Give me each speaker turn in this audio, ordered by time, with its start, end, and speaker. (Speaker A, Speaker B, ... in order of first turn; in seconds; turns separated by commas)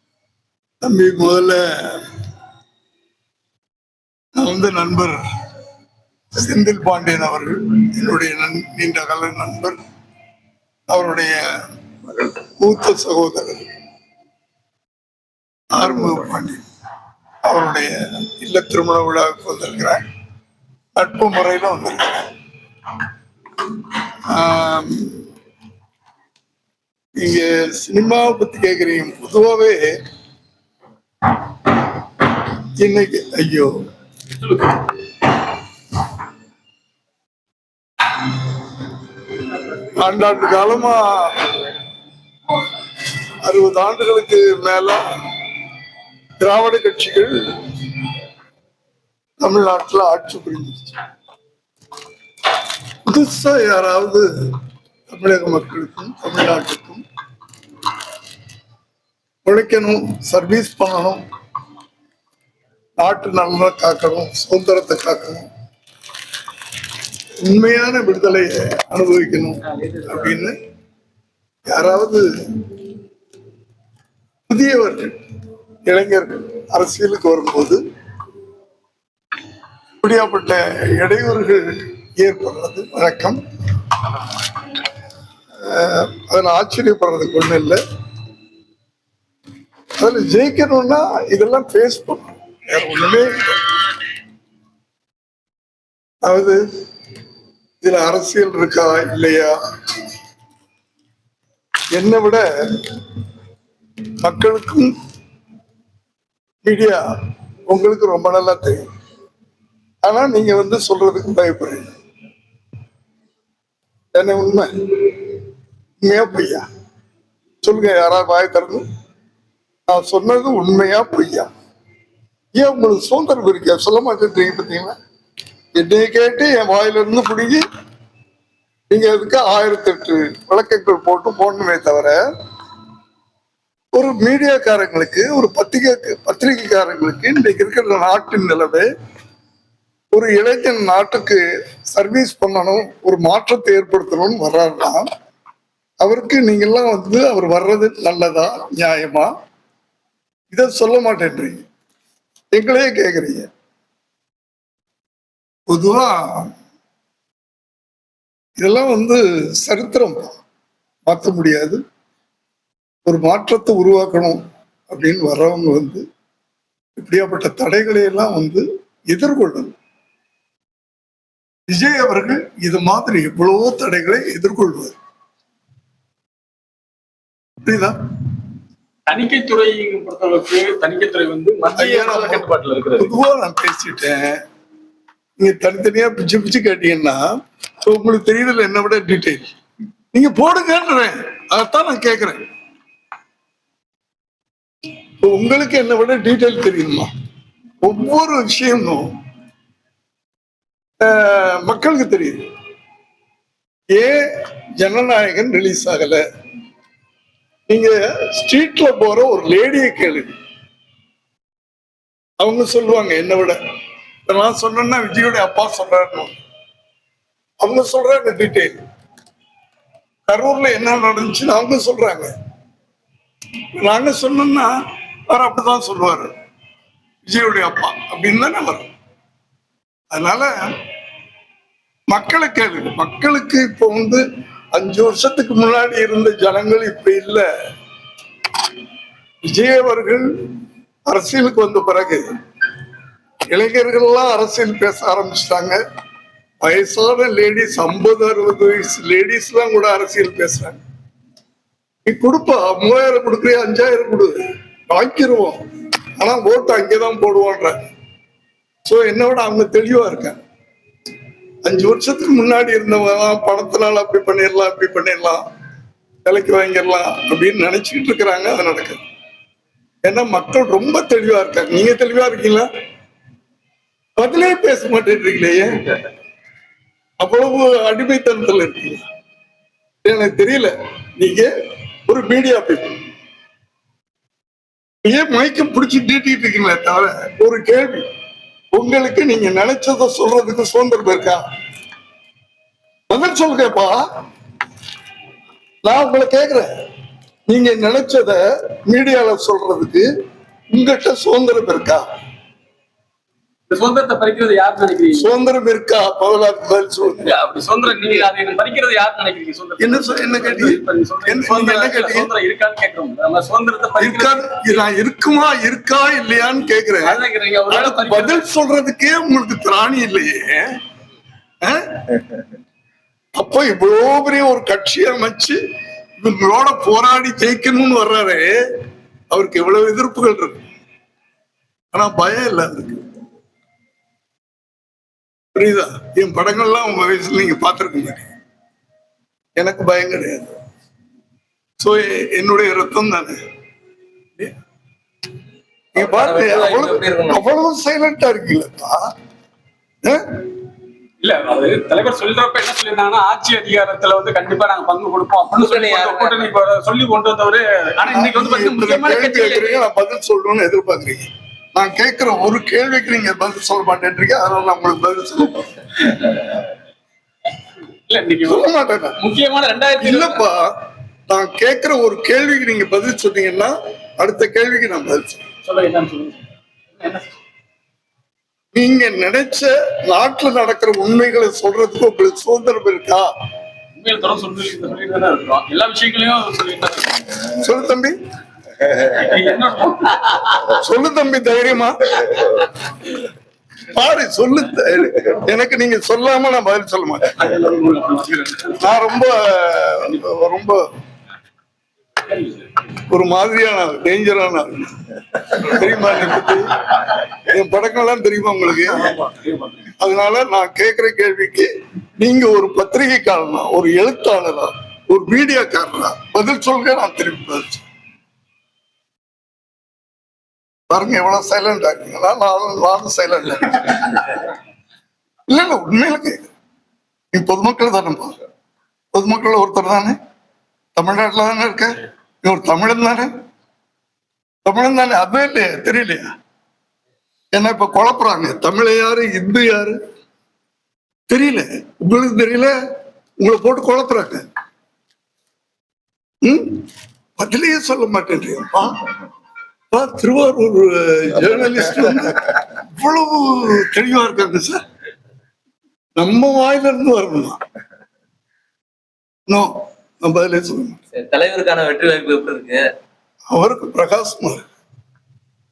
Speaker A: 0.8-2.1, Speaker A: 4.4-5.2, Speaker A: 6.4-9.8, Speaker A: 10.9-11.4, Speaker A: 12.0-13.7, Speaker A: 15.7-16.6, Speaker A: 17.4-20.0, Speaker A: 21.0-22.3, Speaker A: 24.3-25.3, Speaker A: 27.2-29.9, Speaker A: 32.8-33.7, Speaker B: 34.4-34.8, Speaker A: 39.8-41.6, Speaker A: 43.4-45.0, Speaker A: 46.4-48.0, Speaker A: 49.4-51.0, Speaker A: 53.1-54.2, Speaker A: 55.1-57.0, Speaker A: 59.5-61.2, Speaker A: 63.0-65.5, Speaker A: 67.4-70.5, Speaker C: 69.7-70.4, Speaker A: 71.7-72.7, Speaker A: 74.5-75.2, Speaker A: 75.9-77.8, Speaker A: 80.0-81.6, Speaker A: 82.2-83.4, Speaker A: 85.6-87.8, Speaker A: 90.0-93.8, Speaker A: 96.2-96.6, Speaker A: 97.8-99.5, Speaker A: 101.9-103.0, Speaker A: 104.2-104.9, Speaker A: 106.7-107.0, Speaker A: 107.7-108.9, Speaker A: 110.0-111.9, Speaker A: 114.1-115.3, Speaker A: 116.0-116.7, Speaker A: 117.6-118.8, Speaker A: 119.9-121.5, Speaker A: 122.5-125.0, Speaker A: 125.8-127.6, Speaker A: 128.9-132.2, Speaker A: 133.9-138.9, Speaker A: 140.1-145.1, Speaker A: 146.0-149.3, Speaker A: 150.5-151.7, Speaker A: 152.5-153.5, Speaker A: 155.7-156.5, Speaker A: 158.6-160.4, Speaker A: 161.1-161.8, Speaker A: 163.1-166.0, Speaker A: 167.0-169.8, Speaker A: 171.7-174.9, Speaker A: 177.6-177.9, Speaker B: 179.1-183.1, Speaker A: 181.8-182.5, Speaker A: 183.0-184.3, Speaker A: 185.4-187.2, Speaker A: 187.8-189.5, Speaker A: 190.1-192.4, Speaker A: 195.2-197.1, Speaker A: 197.8-199.1, Speaker A: 201.0-202.4, Speaker A: 203.9-204.2, Speaker A: 204.8-206.2, Speaker A: 207.7-210.3, Speaker A: 212.4-213.6, Speaker A: 214.3-216.4, Speaker A: 217.6-218.8, Speaker A: 220.3-222.3, Speaker A: 223.8-224.7, Speaker A: 225.3-226.3, Speaker A: 227.2-228.9, Speaker A: 230.1-230.5, Speaker A: 232.1-237.4, Speaker A: 239.4-240.3, Speaker A: 241.1-242.3, Speaker A: 243.5-245.8, Speaker A: 246.6-250.8, Speaker A: 252.1-255.6, Speaker A: 256.2-257.8, Speaker A: 258.9-260.4, Speaker A: 261.6-265.4, Speaker A: 266.2-269.0, Speaker A: 270.0-272.7, Speaker A: 274.2-275.9, Speaker A: 277.2-279.0, Speaker A: 280.0-281.5, Speaker A: 282.1-283.0, Speaker A: 285.0-288.1, Speaker A: 288.7-291.4, Speaker A: 293.1-294.0, Speaker A: 295.9-296.7, Speaker A: 297.5-300.1, Speaker A: 300.7-302.0, Speaker B: 303.7-305.3, Speaker A: 305.2-307.3, Speaker B: 307.2-314.6, Speaker A: 309.8-312.3, Speaker A: 314.0-320.6, Speaker B: 317.1-318.4, Speaker A: 321.6-322.4, Speaker A: 323.4-325.6, Speaker A: 326.2-328.5, Speaker A: 329.3-330.6, Speaker A: 331.9-333.0, Speaker A: 335.6-338.3, Speaker A: 339.6-340.6, Speaker A: 341.8-343.4, Speaker A: 345.9-349.0, Speaker C: 346.0-347.4, Speaker B: 351.2-359.9, Speaker C: 355.6-356.4, Speaker A: 358.1-366.4, Speaker B: 368.1-370.4, Speaker A: 368.5-369.2, Speaker A: 370.0-370.7, Speaker A: 371.3-375.4, Speaker B: 375.6-376.4, Speaker B: 377.0-377.3, Speaker A: 378.7-383.3, Speaker B: 384.0-387.5, Speaker A: 387.6-388.1, Speaker B: 388.9-390.7, Speaker A: 390.6-392.7, Speaker A: 393.9-397.4, Speaker B: 397.4-398.9, Speaker A: 398.8-400.8, Speaker B: 402.2-402.9, Speaker A: 403.1-409.2, Speaker B: 408.9-409.9, Speaker A: 410.0-417.8, Speaker A: 420.9-424.4, Speaker A: 425.5-426.5, Speaker A: 427.3-428.4, Speaker A: 429.1-430.2, Speaker A: 431.0-433.3, Speaker A: 434.6-436.3, Speaker A: 437.5-440.0, Speaker A: 441.3-442.8, Speaker A: 443.4-444.4, Speaker A: 446.4-446.8, Speaker A: 447.4-449.1, Speaker A: 449.9-454.8, Speaker A: 456.2-457.6, Speaker A: 460.2-461.0, Speaker C: 461.1-462.9, Speaker A: 463.5-464.6